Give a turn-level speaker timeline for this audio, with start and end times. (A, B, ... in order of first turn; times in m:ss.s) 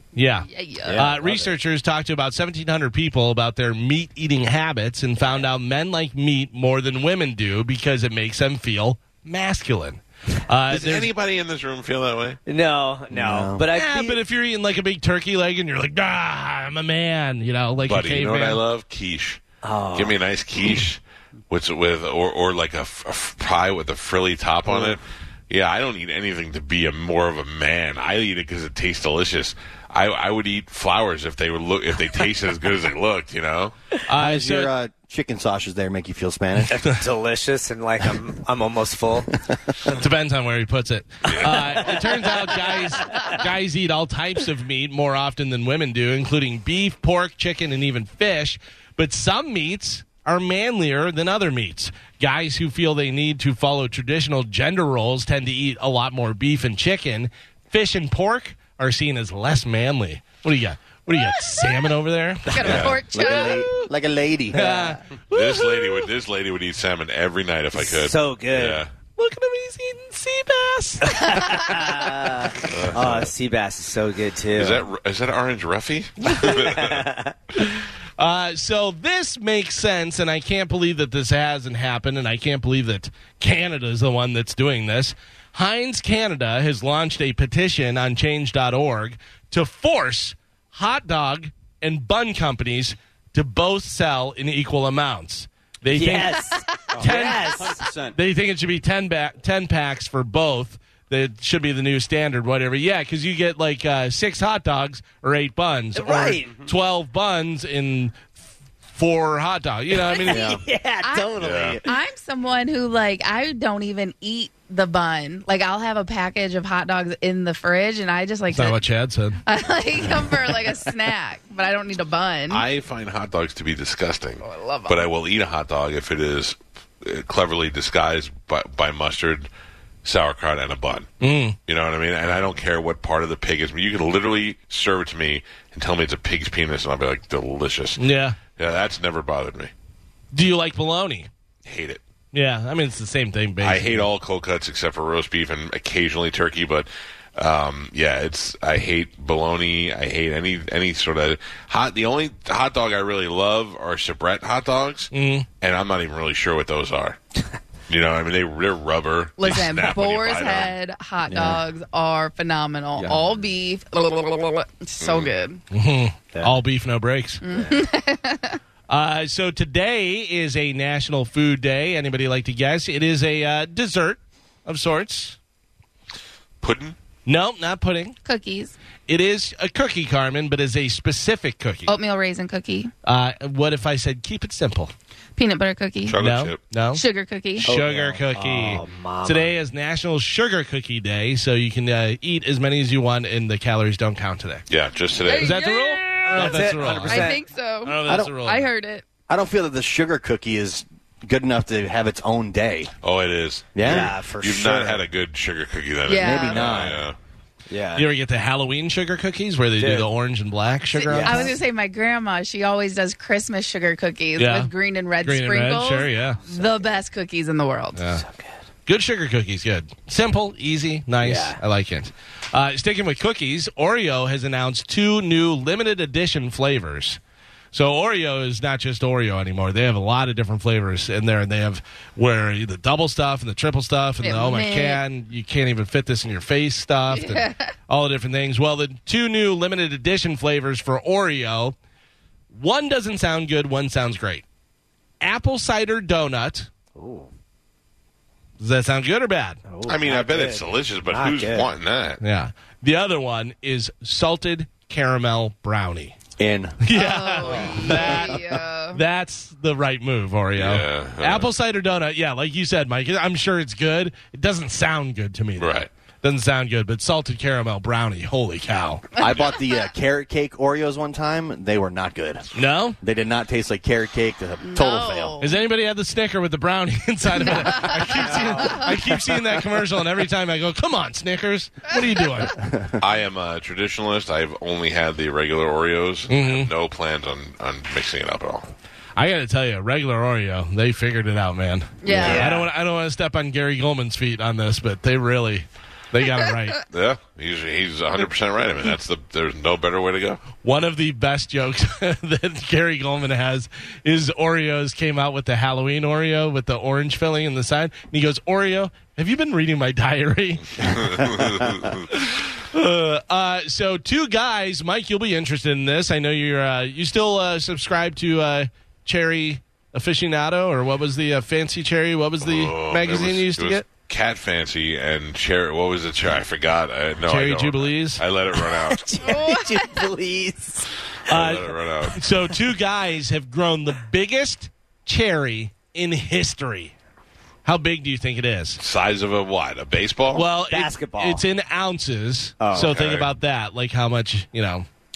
0:00.2-0:11.1 A
0:00.5-0:01.1 B
0:00.8-0:01.5 C
0:10.7-0:12.4 D
0:12.5-0:14.2 C
0:13.1-0:13.6 E
0:13.7-0:18.6 A
0:17.9-0:19.4 D
0:19.6-0:20.2 C
0:20.0-0:33.8 D
0:34.1-0:34.7 A
0:34.1-0:36.8 E
0:36.7-0:39.3 C
0:39.9-1:03.9 A
0:41.3-0:42.0 D
0:41.4-0:43.4 C
1:01.2-1:01.9 B
1:02.5-1:03.7 B
1:02.6-1:03.0 D
1:03.1-1:05.0 E
1:04.5-1:06.1 A
1:05.3-1:08.9 D
1:07.7-1:08.8 C
1:09.2-1:11.2 A
1:11.0-1:14.8 C
1:11.4-1:11.9 B
1:12.6-1:13.3 D
1:14.5-1:17.1 D
1:16.4-1:17.3 C
1:18.2-1:36.5 A
1:35.9-1:37.8 C
1:36.9-1:38.2 F
1:37.0-1:37.6 A
1:38.1-1:48.3 A
1:46.0-1:46.5 C
1:46.4-1:46.7 F
1:48.9-1:50.5 A
1:50.0-1:52.0 C
1:50.3-1:50.6 E
1:51.0-1:51.3 B
1:51.4-1:51.8 D
1:51.8-1:58.8 B
1:58.5-1:59.4 A
1:59.5-2:02.6 B
2:02.5-2:09.5 D
2:04.4-2:05.1 B
2:10.0-2:11.1 D
2:11.2-2:11.6 A
2:11.7-2:18.0 D
2:18.0-2:18.4 A
2:18.6-2:19.7 D
2:20.3-2:21.3 A
2:21.6-2:22.0 D
2:22.3-2:24.1 A
2:23.6-2:37.2 D
2:35.1-2:35.5 A
2:37.9-2:40.8 D
2:39.4-2:45.6 B
2:41.3-2:41.6 E
2:43.0-2:43.4 F
2:45.0-2:45.3 D
2:45.7-2:47.4 A
2:47.4-2:48.6 B
2:48.9-2:55.4 A
2:56.6-2:57.0 D
2:57.3-2:58.2 A
2:58.2-2:58.8 B
2:59.1-3:01.9 A
3:01.9-3:02.9 B
3:03.0-3:04.9 A
3:05.4-3:06.2 B
3:06.0-3:06.6 D
3:06.2-3:07.0 A
3:06.9-3:07.7 B
3:07.6-3:14.7 A
3:07.6-3:09.6 C
3:14.7-3:15.6 D
3:15.2-3:19.0 B
3:15.3-3:17.3 A
3:16.3-3:17.4 C
3:17.8-3:18.7 A
3:18.0-3:18.3 E
3:19.3-3:22.9 E
3:23.0-3:27.2 D
3:23.8-3:24.1 E
3:23.8-3:25.0 C
3:26.1-3:26.8 B
3:26.2-3:27.0 E
3:27.7-3:28.1 C
3:28.0-3:31.5 A
3:29.8-3:30.1 C
3:31.0-3:38.0 B
3:31.1-3:31.4 E
3:31.1-3:31.5 C
3:34.4-3:36.4 A
3:36.5-3:37.0 C
3:38.0-3:38.2 A
3:38.2-3:38.5 C
3:38.9-3:47.2 A
3:41.2-3:41.6 C
3:47.7-4:01.8 A
3:54.2-3:55.0 B
3:57.1-3:57.7 B
4:02.5-4:04.4 A
4:05.2-4:06.7 A
4:07.0-4:07.3 C
4:08.6-4:09.6 A
4:09.7-4:11.7 C
4:09.8-4:12.2 D
4:12.2-4:16.2 A
4:16.4-4:16.8 E
4:16.8-4:18.4 A
4:16.9-4:19.0 B
4:17.5-4:18.6 E
4:18.9-4:29.1 A
4:20.6-4:21.5 D
4:25.6-4:25.9 D
4:29.2-4:32.5 E
4:29.2-4:29.6 D
4:32.6-4:33.0 A
4:33.0-4:35.4 E
4:34.6-4:35.6 B
4:35.4-4:42.6 A
4:37.4-4:38.9 B
4:38.3-4:38.9 C
4:42.5-4:43.0 E
4:43.0-4:48.7 D
4:46.3-4:46.7 A
4:49.2-4:56.8 A
4:52.0-4:52.6 B
4:52.1-4:52.4 E
4:52.2-4:52.7 C
4:56.9-5:00.4 D
5:00.6-5:23.8 A
5:10.8-5:12.1 D
5:22.4-5:29.0 D
5:27.3-5:28.2 A
5:28.6-5:30.9 C
5:29.2-5:30.1 B
5:31.3-5:32.2 D
5:31.3-5:36.9 A
5:37.6-5:38.8 A
5:38.8-5:40.5 D
5:40.3-5:44.9 A
5:40.7-5:41.4 C
5:42.6-5:43.0 C
5:42.7-5:43.3 D